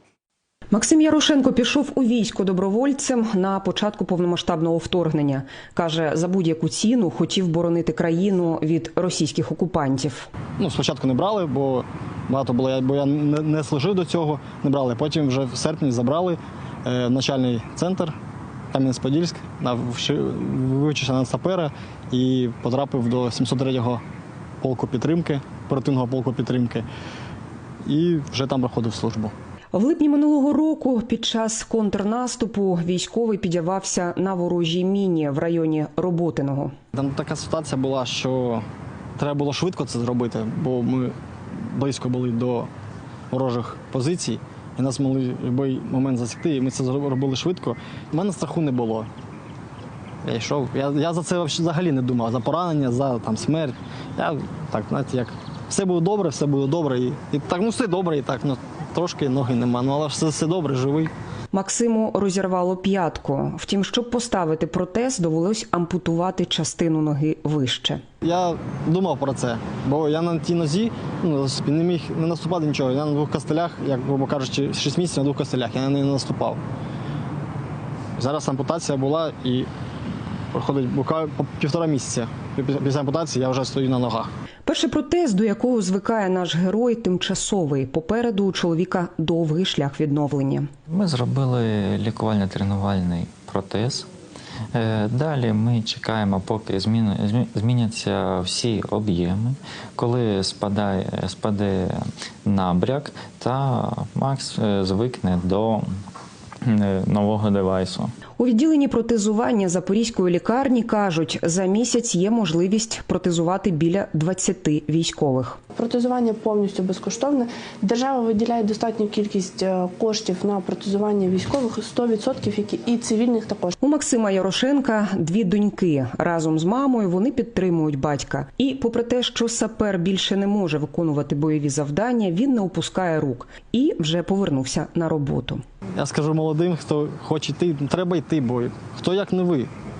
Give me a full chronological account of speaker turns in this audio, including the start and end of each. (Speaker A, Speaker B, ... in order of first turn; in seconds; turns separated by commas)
Speaker A: 0.7-10.3, Speaker B: 10.6-18.1, Speaker B: 18.7-24.0, Speaker B: 24.6-26.9, Speaker B: 27.8-29.3, Speaker A: 29.7-36.7, Speaker B: 36.9-38.6, Speaker B: 39.2-42.7, Speaker B: 43.3-49.1, Speaker B: 50.2-61.1, Speaker A: 61.5-68.0, Speaker B: 68.2-76.6, Speaker B: 78.2-79.7, Speaker B: 80.5-84.3, Speaker A: 84.7-90.7, Speaker C: 90.9-94.1, Speaker C: 94.7-105.8, Speaker C: 106.6-108.1, Speaker A: 108.4-115.6, Speaker D: 115.7-123.8, Speaker A: 123.8-135.6, Speaker B: 135.9-139.7